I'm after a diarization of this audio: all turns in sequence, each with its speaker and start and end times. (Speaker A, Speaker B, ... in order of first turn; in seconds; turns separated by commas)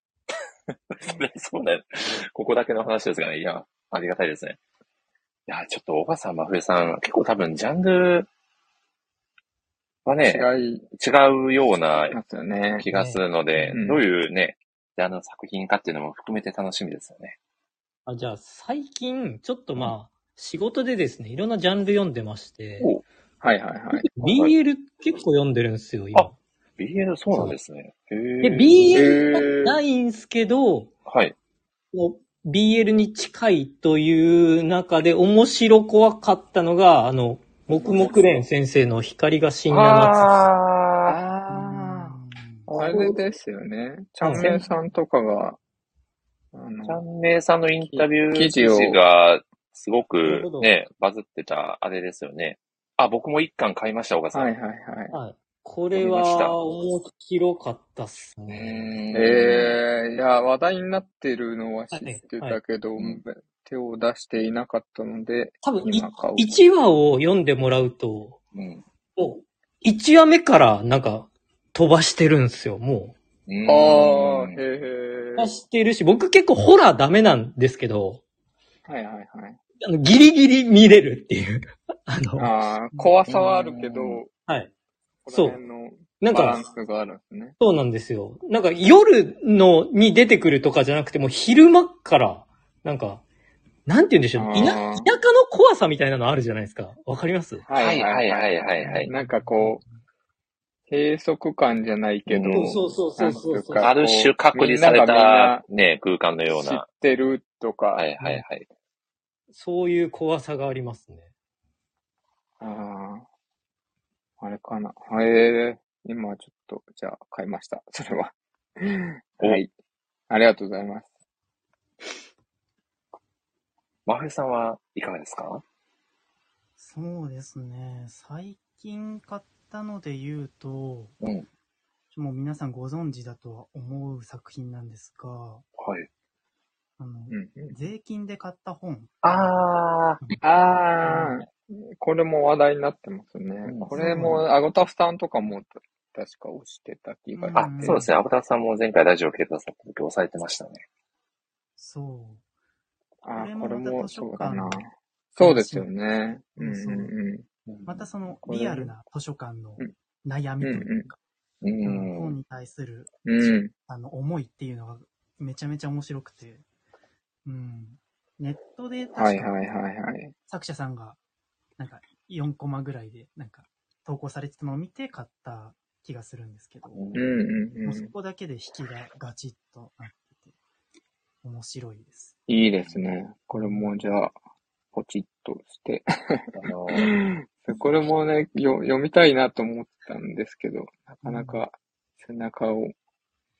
Speaker A: 0.7-4.6, Speaker A: 5.5-8.3, Speaker A: 10.1-12.2, Speaker B: 10.2-10.9, Speaker B: 12.1-12.8, Speaker A: 12.8-17.4, Speaker C: 12.9-13.8, Speaker B: 13.7-14.0, Speaker C: 18.1-22.9, Speaker B: 23.4-24.1, Speaker C: 24.0-26.4, Speaker A: 24.2-24.6, Speaker A: 26.1-29.1, Speaker C: 28.4-30.9, Speaker B: 28.9-29.8, Speaker A: 31.1-31.4, Speaker C: 31.9-40.3, Speaker B: 37.7-38.2, Speaker A: 39.7-41.2, Speaker B: 41.1-42.2, Speaker D: 41.5-42.7, Speaker B: 42.7-45.6, Speaker C: 42.8-43.2, Speaker C: 44.2-44.5, Speaker B: 46.5-47.0, Speaker A: 46.9-54.5, Speaker B: 47.8-49.0, Speaker C: 50.2-50.7, Speaker B: 54.3-55.1, Speaker C: 55.1-59.0, Speaker A: 56.0-56.6, Speaker A: 58.5-59.8, Speaker B: 59.1-66.5, Speaker C: 61.9-62.6, Speaker C: 65.6-68.4, Speaker A: 68.5-68.8, Speaker C: 69.2-73.2, Speaker A: 73.5-74.6, Speaker B: 73.7-75.5, Speaker C: 75.4-78.2, Speaker B: 78.9-79.6, Speaker C: 79.8-83.1, Speaker B: 82.4-84.3, Speaker A: 83.3-84.2, Speaker C: 84.5-84.7, Speaker B: 85.2-87.5, Speaker C: 85.3-85.6, Speaker C: 86.2-86.7, Speaker C: 87.6-93.2, Speaker C: 93.9-97.7, Speaker B: 94.4-95.1, Speaker B: 97.7-99.8, Speaker A: 97.7-99.1, Speaker D: 98.8-99.8, Speaker B: 100.9-105.6, Speaker A: 102.3-102.7, Speaker C: 102.5-103.9, Speaker A: 103.8-106.9, Speaker B: 106.5-108.1, Speaker A: 108.0-108.7, Speaker C: 109.5-111.3, Speaker B: 112.6-113.3, Speaker B: 114.4-119.7, Speaker B: 120.3-121.1, Speaker A: 124.1-125.6, Speaker D: 126.8-131.2, Speaker A: 131.2-131.5, Speaker D: 132.1-135.7, Speaker A: 135.8-136.1, Speaker D: 137.0-139.6, Speaker B: 137.3-137.8, Speaker A: 139.2-140.2, Speaker B: 140.4-148.1, Speaker D: 141.1-141.4, Speaker A: 143.7-144.4, Speaker D: 143.9-144.5, Speaker D: 147.4-148.1, Speaker A: 147.5-150.8, Speaker D: 151.8-152.4, Speaker B: 153.2-157.4, Speaker D: 153.4-154.8, Speaker D: 155.4-155.9, Speaker D: 156.6-157.1, Speaker A: 157.7-158.1, Speaker D: 157.9-161.2, Speaker B: 158.4-158.9, Speaker B: 160.6-161.1, Speaker A: 161.6-162.4, Speaker D: 161.8-163.1, Speaker B: 163.2-163.7, Speaker D: 163.9-166.6, Speaker D: 167.4-169.5, Speaker B: 169.2-170.3, Speaker D: 170.5-171.2, Speaker D: 171.8-177.0, Speaker A: 176.9-177.3, Speaker B: 177.1-178.1, Speaker D: 177.8-180.5, Speaker D: 181.4-182.3, Speaker B: 182.5-184.3, Speaker D: 183.5-183.9, Speaker B: 184.9-192.9, Speaker A: 186.5-187.2, Speaker D: 191.2-191.6